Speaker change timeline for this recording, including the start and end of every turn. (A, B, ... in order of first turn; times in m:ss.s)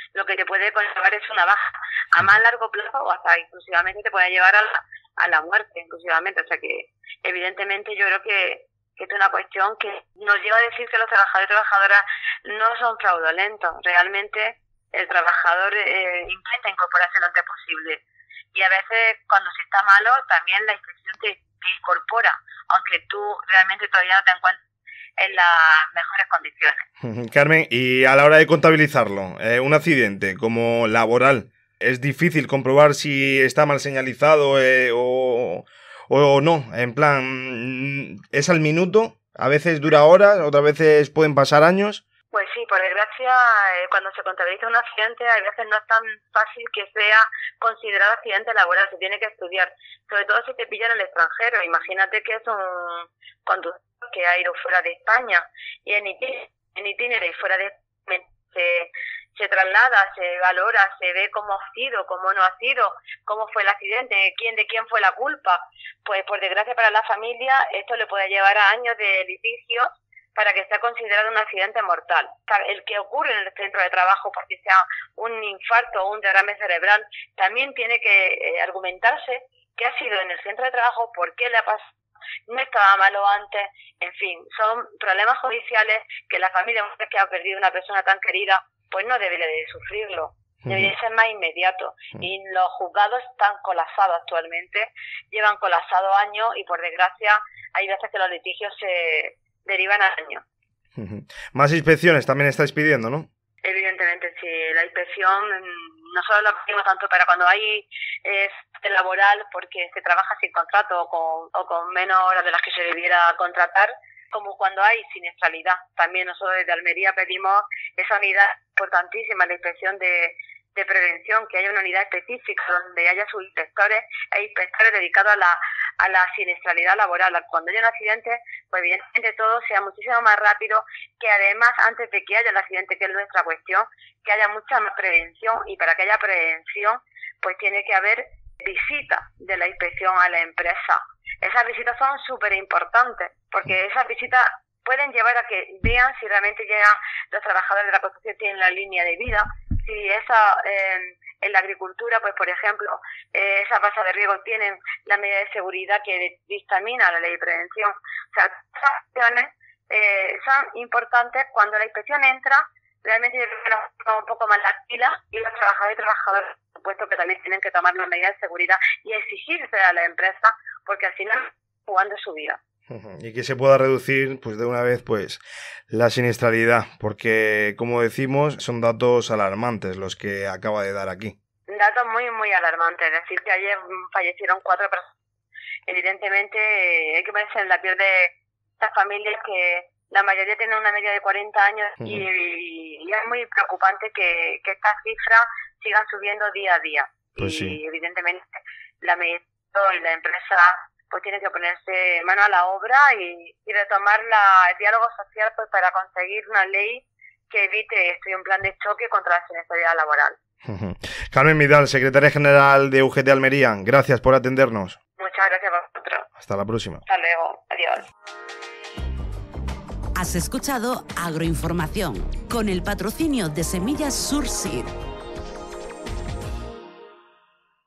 0:00.1-0:24.6 A
0:25.2-0:26.9 A
0:27.0-0:42.0 B
0:42.3-1:21.9 A
1:22.4-1:40.4 A
1:30.6-1:30.9 B
1:41.0-1:43.3 B
1:43.6-2:52.6 A
2:52.9-3:01.3 B
3:01.7-3:05.1 A
3:05.8-3:30.4 A
3:17.4-3:17.8 B
3:30.6-3:35.0 B
3:35.2-3:36.3 A
3:36.4-3:37.0 B
3:37.0-3:38.1 A
3:40.1-3:45.0 C